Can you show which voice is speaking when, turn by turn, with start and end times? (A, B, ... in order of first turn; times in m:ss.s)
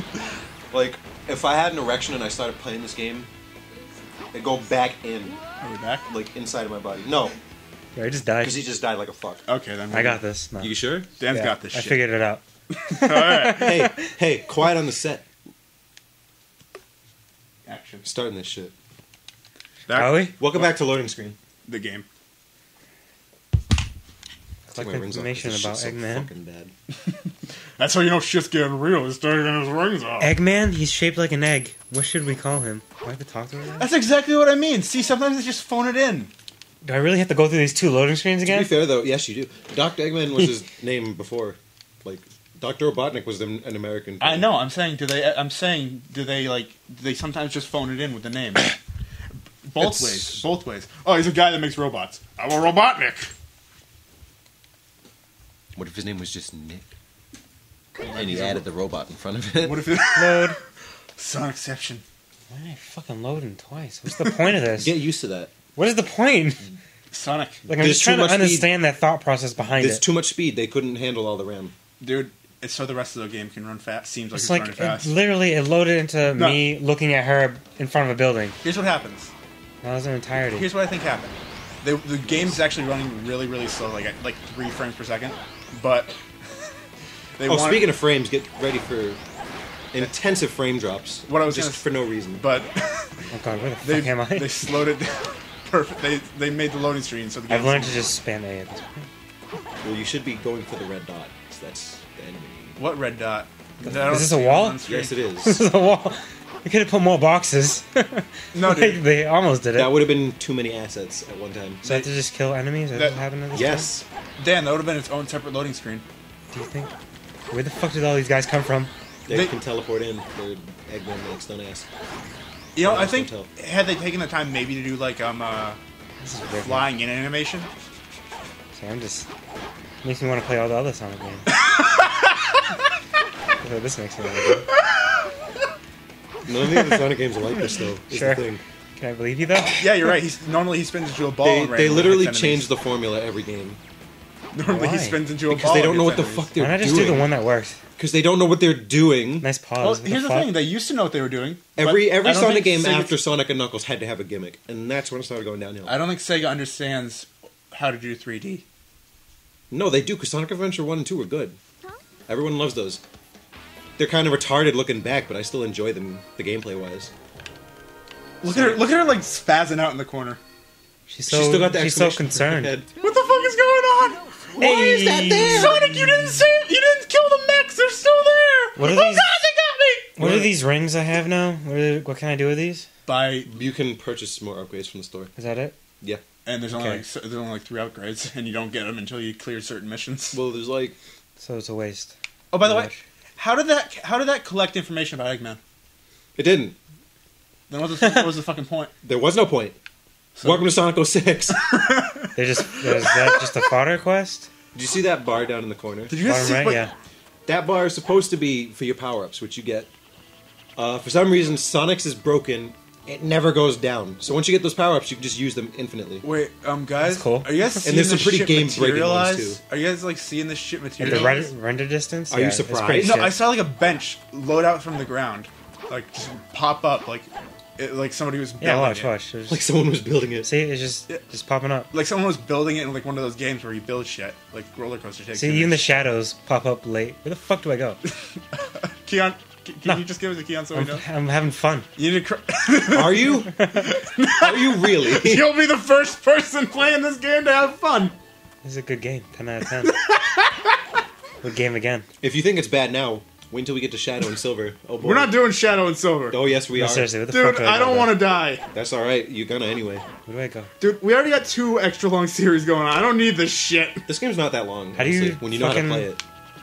0:00.7-0:03.3 A
0:04.3-0:05.4 A
0:05.6-0:06.1 B
0:06.1-0:07.4 A
0:08.0-0:08.6 C
0:08.4-0:09.4 A
0:09.5-0:10.2 B
0:09.9-0:10.7 C
0:10.6-0:11.1 A
0:11.2-0:12.1 B
0:11.3-0:14.0 C
0:12.7-0:13.8 B
0:13.6-0:15.3 A
0:17.7-0:18.0 B
0:18.0-0:18.7 A
0:19.9-0:20.7 B
0:19.9-0:20.3 C
0:20.4-0:21.4 A
0:21.7-0:22.1 B
0:24.7-0:26.3 C
0:24.8-0:26.7 A
0:27.8-0:30.3 B
0:30.2-0:33.9 C
0:33.8-0:36.3 B
0:36.8-0:38.7 C
0:38.4-0:44.5 A
0:44.2-0:48.8 B
0:49.6-0:53.3 B
0:49.8-0:50.4 A
0:55.8-0:56.9 A
0:58.0-0:58.6 B
0:58.1-0:59.9 A
0:59.6-1:00.6 B
1:00.1-1:00.6 C
1:01.2-1:02.0 B
1:02.5-1:04.9 C
1:04.8-1:05.5 A
1:05.8-1:06.6 C
1:07.1-1:07.7 B
1:07.7-1:10.0 C
1:07.8-1:08.7 A
1:09.8-1:11.7 A
1:12.0-1:15.1 B
1:14.3-1:18.6 C
1:16.4-1:16.6 B
1:18.6-1:19.3 B
1:19.8-1:20.7 C
1:20.5-1:26.2 B
1:27.4-1:27.9 B
1:27.4-1:29.2 A
1:29.9-1:32.4 A
1:31.3-1:33.2 B
1:33.3-1:34.6 C
1:33.8-1:38.1 B
1:37.5-1:39.1 C
1:39.8-1:42.8 A
1:42.8-1:45.2 B
1:43.9-1:44.8 C
1:44.8-1:45.6 A
1:45.4-1:50.0 C
1:48.5-1:49.0 B
1:49.8-1:51.8 A
1:51.8-1:53.9 C
1:51.8-1:52.1 B
1:52.9-1:53.2 B
1:53.5-1:54.0 A
1:54.4-1:56.0 B
1:56.5-1:56.9 C
1:57.5-1:58.9 C
1:59.3-2:01.9 A
1:59.3-1:59.5 B
2:02.8-2:05.8 B
2:02.8-2:03.5 A
2:06.2-2:06.9 C
2:06.5-2:07.7 B
2:08.7-2:09.3 C
2:10.0-2:11.5 C
2:11.5-2:12.6 B
2:13.6-2:14.7 C
2:14.8-2:15.3 B
2:16.5-2:18.6 A
2:18.1-2:18.4 C
2:19.0-2:19.8 C
2:19.6-2:22.7 B
2:21.4-2:23.8 A
2:24.5-2:26.6 B
2:24.6-2:25.2 C
2:25.5-2:27.3 A
2:26.6-2:27.8 C
2:28.0-2:29.5 A
2:29.4-2:30.6 C
2:29.8-2:33.2 B
2:31.8-2:36.0 A
2:35.9-2:38.6 B
2:39.7-2:41.6 A
2:42.3-2:43.0 A
2:44.0-2:47.1 A
2:48.4-2:50.4 B
2:48.5-2:48.8 A
2:51.1-2:52.8 C
2:51.3-2:52.9 A
2:53.0-2:54.4 B
2:54.6-2:55.8 A
2:54.6-2:55.8 C
2:55.4-3:00.5 B
2:58.8-2:59.4 C
3:00.2-3:02.9 C
3:03.1-3:03.5 B
3:03.5-3:05.3 A
3:05.4-3:05.8 C
3:06.4-3:10.4 B
3:06.7-3:07.0 C
3:10.3-3:11.0 A
3:11.4-3:13.0 C
3:12.5-3:15.6 B
3:16.4-3:16.8 A
3:17.7-3:18.9 B
3:19.0-3:19.8 A
3:20.4-3:20.7 B
3:20.4-3:21.7 A
3:21.5-3:23.4 B
3:22.4-3:24.5 C
3:24.7-3:26.1 A
3:26.1-3:26.8 B
3:26.2-3:26.9 C
3:27.5-3:29.9 A
3:30.8-3:36.2 A
3:36.2-3:41.5 B
3:37.0-3:37.9 C
3:37.8-3:39.6 A
3:41.0-3:43.4 C
3:41.0-3:41.4 A
3:42.3-3:43.3 A
3:43.0-3:49.1 B
3:48.6-3:49.7 C
3:49.5-3:50.5 A
3:50.4-3:51.9 C
3:51.9-3:55.9 B
3:55.3-3:58.0 C
3:58.4-4:01.0 B
4:00.7-4:01.9 C
4:02.0-4:08.2 B
4:02.9-4:03.5 A
4:04.4-4:05.6 A
4:08.6-4:10.0 C
4:09.8-4:10.8 B
4:11.4-4:12.1 C
4:12.2-4:15.4 A
4:15.0-4:16.4 B
4:16.3-4:17.1 A
4:16.7-4:18.2 C
4:17.3-4:18.6 B
4:18.7-4:20.0 A
4:20.3-4:20.7 C
4:20.8-4:24.0 B
4:24.1-4:26.2 A
4:25.0-4:26.1 C